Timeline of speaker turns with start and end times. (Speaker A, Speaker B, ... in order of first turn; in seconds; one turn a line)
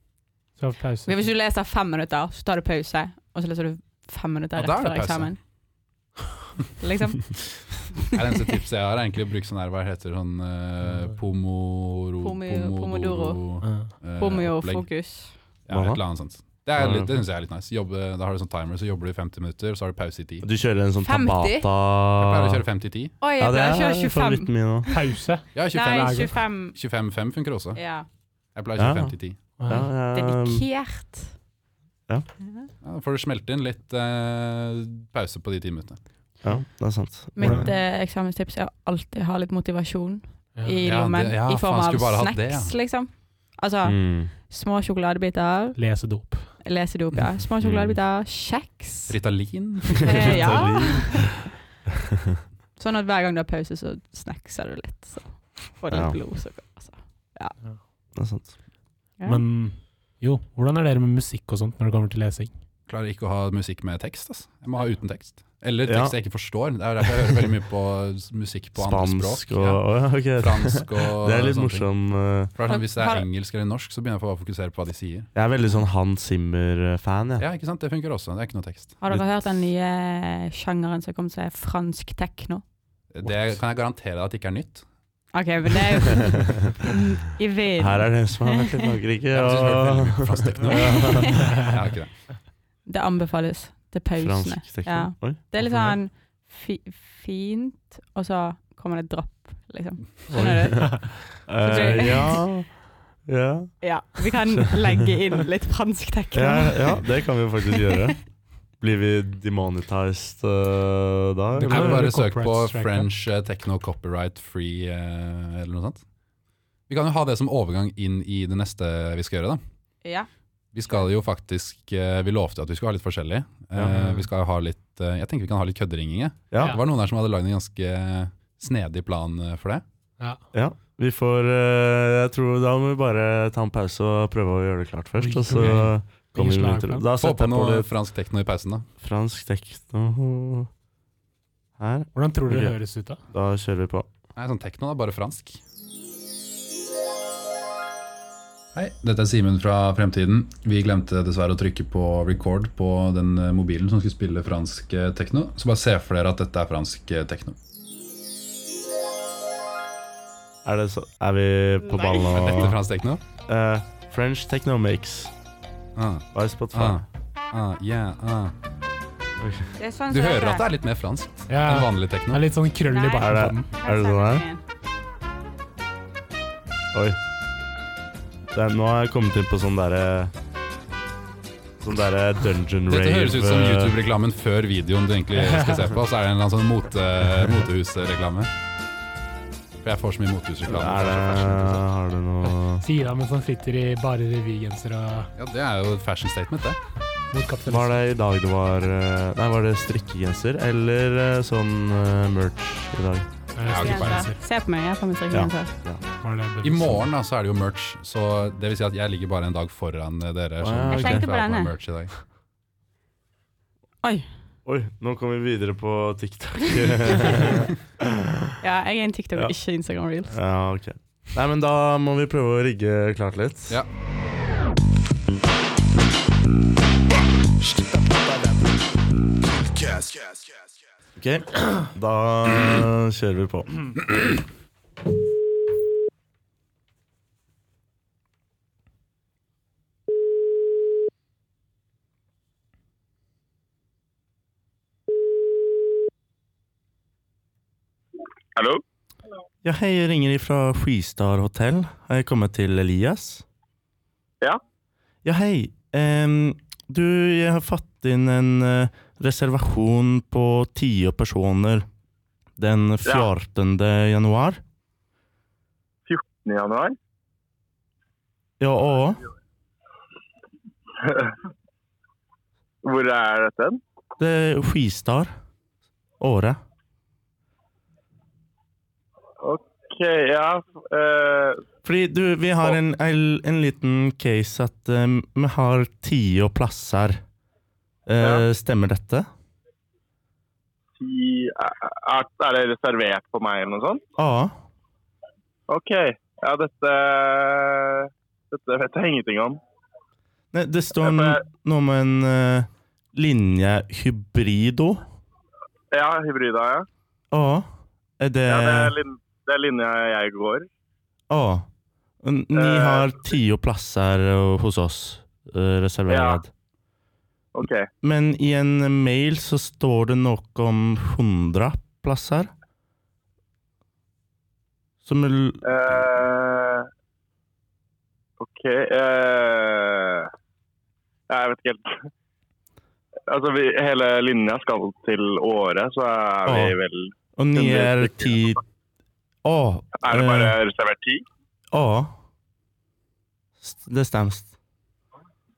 Speaker A: 0.6-1.1
Speaker B: 1.1-5.4
Speaker C: 4.6-5.3
Speaker B: 6.8-8.2
Speaker C: 8.1-14.9
Speaker B: 12.2-13.4
Speaker A: 13.6-13.9
Speaker B: 14.2-15.3
Speaker C: 15.7-20.5
Speaker D: 15.7-16.0
Speaker D: 16.8-17.1
Speaker D: 20.4-22.6
Speaker B: 21.0-21.7
Speaker C: 22.2-23.1
Speaker B: 23.2-25.0
Speaker D: 23.4-24.9
Speaker A: 24.9-26.3
Speaker C: 25.5-27.8
Speaker B: 25.7-26.8
Speaker B: 27.8-28.1
Speaker C: 28.6-29.4
Speaker D: 28.8-29.1
Speaker A: 29.6-29.9
Speaker D: 29.7-30.6
Speaker B: 29.8-31.4
Speaker B: 32.4-32.7
Speaker C: 32.8-36.0
Speaker D: 36.4-37.7
Speaker B: 37.4-45.8
Speaker A: 37.4-37.7
Speaker C: 40.8-42.7
Speaker D: 43.8-44.3
Speaker A: 45.8-46.5
Speaker B: 46.6-49.2
Speaker D: 47.6-48.0
Speaker C: 49.1-50.5
Speaker B: 50.0-51.4
Speaker D: 50.0-51.4
Speaker B: 52.8-57.6
Speaker D: 55.9-56.2
Speaker D: 58.1-58.5
Speaker B: 59.2-59.4
Speaker A: 59.2-62.5
Speaker C: 62.9-71.9
Speaker D: 65.9-66.2
Speaker D: 68.8-72.5
Speaker C: 72.5-75.3
Speaker B: 72.7-73.3
Speaker D: 75.3-77.5
Speaker C: 77.4-79.0
Speaker B: 79.0-82.6
Speaker C: 83.1-84.9
Speaker B: 85.3-88.8
Speaker D: 87.8-91.4
Speaker C: 89.3-92.1
Speaker B: 90.8-91.2
Speaker B: 92.9-102.5
Speaker D: 94.2-95.4
Speaker A: 95.6-96.0
Speaker D: 100.3-103.8
Speaker B: 103.8-108.0
Speaker D: 106.3-108.2
Speaker D: 108.8-112.1
Speaker A: 111.5-113.1
Speaker C: 111.7-116.0
Speaker C: 116.9-119.6
Speaker C: 120.7-129.8
Speaker D: 123.8-124.1
Speaker D: 126.5-126.8
Speaker D: 130.5-137.9
Speaker A: 135.2-137.1
Speaker C: 135.6-135.9
Speaker C: 137.2-138.9
Speaker D: 139.0-140.7
Speaker D: 141.8-142.8
Speaker A: 142.1-143.2
Speaker D: 143.3-144.1
Speaker C: 144.4-145.6
Speaker C: 148.7-157.6
Speaker D: 160.6-162.8
Speaker B: 162.0-162.3
Speaker C: 162.3-163.2
Speaker D: 163.4-165.3
Speaker C: 166.0-168.6
Speaker D: 166.3-167.0
Speaker D: 169.4-169.7
Speaker B: 169.8-170.7
Speaker C: 170.1-172.5
Speaker A: 171.5-173.7
Speaker B: 172.9-174.6
Speaker D: 173.2-174.4
Speaker D: 176.9-177.2
Speaker D: 178.5-180.3
Speaker D: 181.8-183.9
Speaker C: 182.9-188.5
Speaker A: 185.5-185.8
Speaker C: 189.8-191.8
Speaker D: 190.7-192.8
Speaker A: 192.4-195.3
Speaker C: 195.4-196.8
Speaker A: 197.3-198.0
Speaker D: 197.7-203.3
Speaker A: 203.5-204.4
Speaker C: 203.6-204.3
Speaker B: 203.7-205.7
Speaker D: 205.3-206.0
Speaker A: 206.2-207.0
Speaker C: 206.6-212.1
Speaker D: 210.6-211.3
Speaker B: 210.9-211.7
Speaker D: 214.7-218.6
Speaker B: 218.6-220.4
Speaker D: 220.3-223.8
Speaker D: 231.2-234.3
Speaker E: 248.6-248.8
Speaker D: 249.6-253.4
Speaker D: 255.2-261.9
Speaker D: 262.6-264.6
Speaker E: 266.1-267.0
Speaker D: 268.6-269.2
Speaker E: 271.0-271.3
Speaker E: 272.8-273.8
Speaker D: 274.2-275.3
Speaker D: 276.2-276.6
Speaker E: 279.4-281.6
Speaker D: 281.8-287.2
Speaker D: 288.1-289.3
Speaker E: 291.0-294.0
Speaker D: 294.2-294.6
Speaker E: 295.7-299.6
Speaker D: 300.5-305.0
Speaker E: 301.0-301.4
Speaker E: 305.9-306.9
Speaker D: 307.3-307.7
Speaker D: 308.2-308.9
Speaker E: 308.5-310.7
Speaker D: 311.3-311.7
Speaker D: 312.2-316.5
Speaker E: 312.5-313.2
Speaker E: 316.1-316.4
Speaker E: 317.5-317.9
Speaker D: 318.0-322.5
Speaker D: 325.1-326.0
Speaker E: 325.6-326.9
Speaker E: 328.4-330.3
Speaker E: 331.3-332.1
Speaker E: 333.3-338.5
Speaker D: 336.5-336.8
Speaker D: 337.4-338.6
Speaker D: 339.4-340.6
Speaker E: 340.0-341.2
Speaker D: 341.7-342.1
Speaker D: 343.6-344.5